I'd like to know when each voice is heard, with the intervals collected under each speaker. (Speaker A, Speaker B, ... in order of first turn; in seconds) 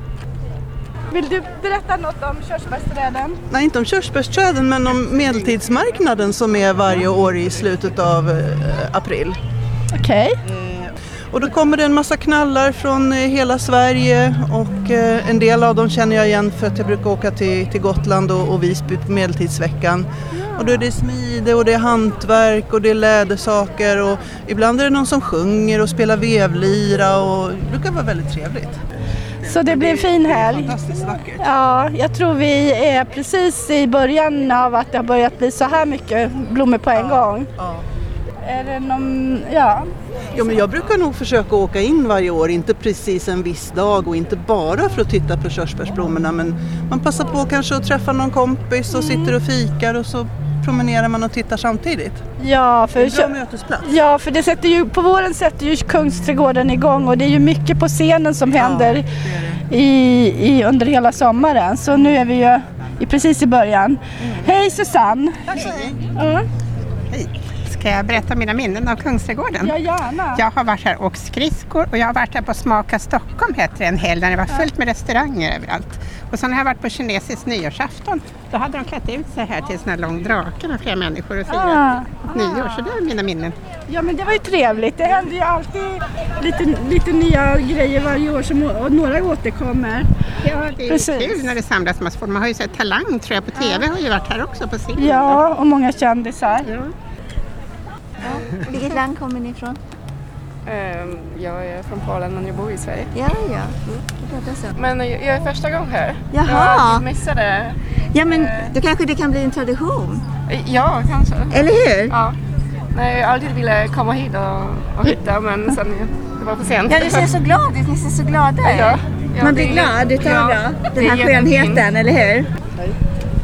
Speaker A: 1.1-3.4, 9.9-10.4, 20.3-20.6, 29.4-30.7, 31.4-37.5, 38.4-39.9, 48.9-49.4, 52.4-59.0, 59.7-65.5, 66.1-66.4, 69.6-70.4, 81.5-82.6, 83.9-90.1, 90.8-91.5, 93.6-93.8, 95.0-96.7
Speaker B: 3.5-9.4, 10.5-28.8, 29.4-31.4, 36.9-37.8, 40.3-52.2, 53.0-53.9, 58.5-59.6, 65.5-66.0
Speaker C: 67.1-69.7, 70.3-83.5, 90.4-95.4, 96.7-96.9
Speaker D: 98.2-99.8, 103.1-104.8, 106.3-107.1, 108.1-110.2, 111.5-112.2, 116.9-122.5
Speaker E: 100.7-103.1, 104.7-107.8, 108.3-108.7, 110.5-112.4, 112.9-117.3, 118.6-121.8